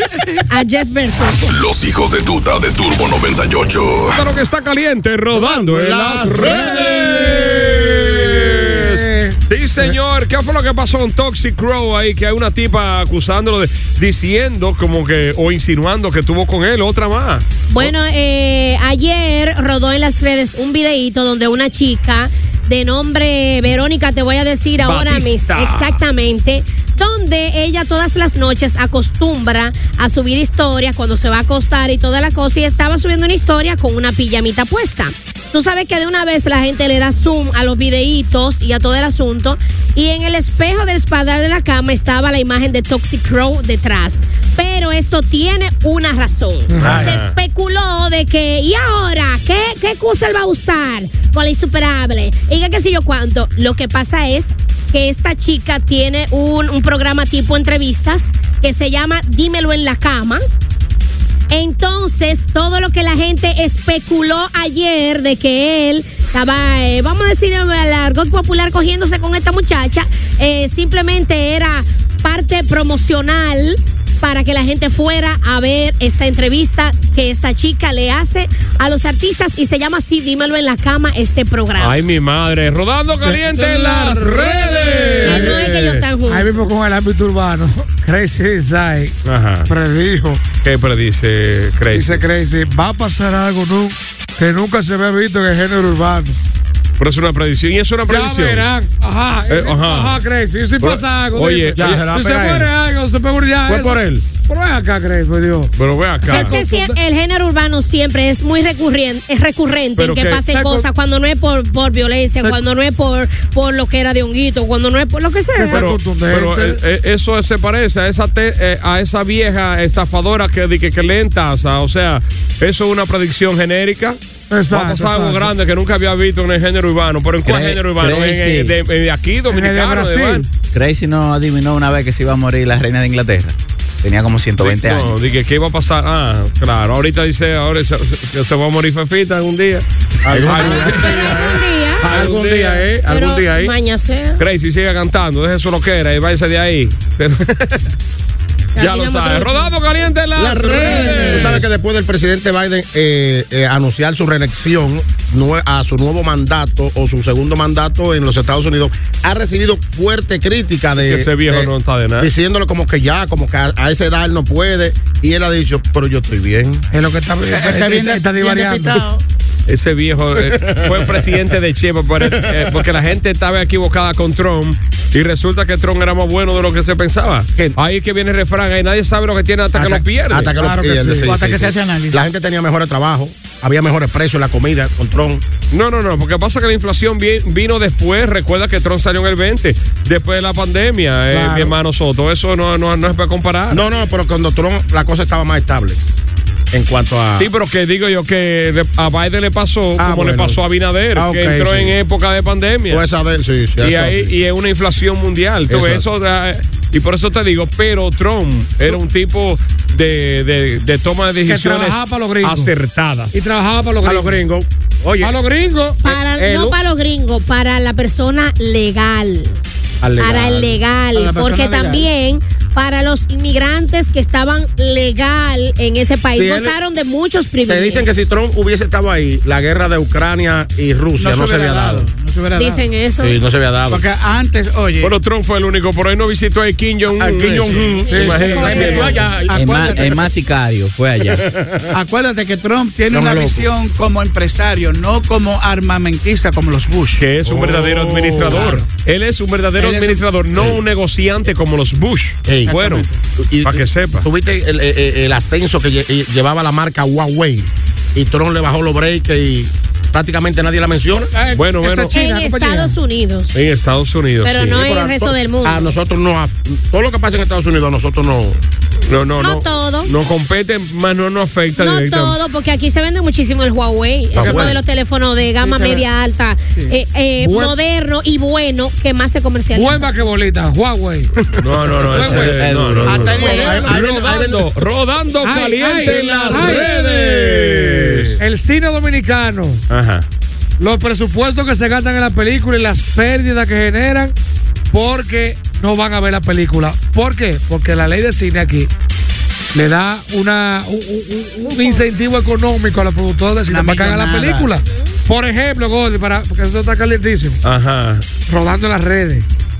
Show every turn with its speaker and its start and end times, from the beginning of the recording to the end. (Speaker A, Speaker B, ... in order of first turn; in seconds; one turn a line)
Speaker A: 0.5-1.5
Speaker B: 1.5-4.2
Speaker C: 4.1-17.9
Speaker D: 5.3-9.3
Speaker A: 17.7-60.4
Speaker C: 24.8-26.0
Speaker E: 46.7-47.1
Speaker C: 46.8-47.3
Speaker A: 61.5-82.0
Speaker C: 81.8-85.8
Speaker E: 83.2-84.3
Speaker A: 85.2-86.6
Speaker E: 85.2-89.1
Speaker C: 89.2-89.7
Speaker E: 89.7-90.4
Speaker C: 90.6-92.2
Speaker E: 91.9-96.4
Speaker C: 97.0-98.7
Speaker E: 98.1-107.0
Speaker C: 99.5-100.2
Speaker C: 100.8-102.0
Speaker D: 101.8-102.7
Speaker D: 103.7-104.2
Speaker C: 105.8-106.6
Speaker A: 106.3-115.9
Speaker C: 110.0-110.4
Speaker E: 110.5-110.9
Speaker E: 115.5-116.8
Speaker C: 115.7-124.2
Speaker E: 124.5-125.5
Speaker C: 124.7-130.4
Speaker F: 127.4-128.7
Speaker E: 129.5-130.5
Speaker F: 130.7-135.1
Speaker C: 134.6-141.5
Speaker D: 140.3-142.9
Speaker A: 140.6-142.1
Speaker C: 142.0-143.7
Speaker A: 143.1-144.4
Speaker C: 144.4-147.8
Speaker A: 148.7-149.7
Speaker C: 148.8-151.7
Speaker D: 150.3-166.8
Speaker A: 150.7-151.5
Speaker C: 161.0-162.3
Speaker E: 166.9-169.0
Speaker G: 167.5-169.2
Speaker C: 169.7-180.5
Speaker D: 170.4-171.2
Speaker D: 172.2-172.8
Speaker D: 179.7-185.4
Speaker E: 180.6-181.3
Speaker G: 181.2-182.2
Speaker C: 185.7-193.8
Speaker E: 191.3-191.7
Speaker D: 193.7-196.0
Speaker D: 196.7-197.5
Speaker C: 197.4-203.0
Speaker D: 200.0-200.6
Speaker D: 201.1-202.0
Speaker D: 202.9-204.3
Speaker C: 203.8-213.4
Speaker D: 205.7-206.1
Speaker E: 211.5-212.7
Speaker E: 213.3-214.4
Speaker D: 214.0-215.3
Speaker E: 215.2-216.0
Speaker D: 216.0-216.8
Speaker A: 216.0-219.6
Speaker D: 220.0-220.8
Speaker A: 220.2-228.1
Speaker G: 221.1-222.1
Speaker D: 226.3-226.8
Speaker D: 227.7-232.1
Speaker G: 231.2-232.8
Speaker A: 232.6-233.3
Speaker D: 233.2-234.0
Speaker G: 233.9-235.1
Speaker C: 235.0-239.9
Speaker D: 237.2-239.3
Speaker G: 238.1-240.3
Speaker E: 238.3-238.9
Speaker F: 239.5-241.4
Speaker D: 241.3-241.9
Speaker G: 241.9-247.3
Speaker D: 243.1-243.7
Speaker C: 247.2-253.1
Speaker D: 247.4-248.7
Speaker G: 248.4-248.9
Speaker G: 249.8-250.2
Speaker D: 250.5-250.8
Speaker D: 252.4-252.8
Speaker G: 252.7-253.2
Speaker D: 253.4-261.3
Speaker C: 253.6-254.3
Speaker E: 261.3-263.0
Speaker C: 261.5-262.1
Speaker A: 262.1-263.5
Speaker C: 263.5-264.8
Speaker A: 264.4-265.9
Speaker D: 264.7-268.6
Speaker C: 269.1-272.4
Speaker A: 269.4-270.1
Speaker A: 271.8-280.1
Speaker D: 274.3-274.8
Speaker G: 275.6-276.0
Speaker E: 277.4-277.8
Speaker E: 279.7-281.3
Speaker C: 281.6-288.4
Speaker D: 281.8-282.2
Speaker E: 282.1-282.8
Speaker F: 282.2-283.4
Speaker G: 283.0-284.5
Speaker D: 283.3-284.8
Speaker E: 283.3-283.9
Speaker E: 285.4-286.9
Speaker D: 285.8-288.4
Speaker E: 288.4-289.8
Speaker C: 289.9-290.2
Speaker E: 290.8-294.3
Speaker E: 294.9-298.9
Speaker E: 299.7-307.6
Speaker A: 301.6-302.0
Speaker G: 303.7-304.7
Speaker C: 307.6-308.2
Speaker E: 308.4-309.4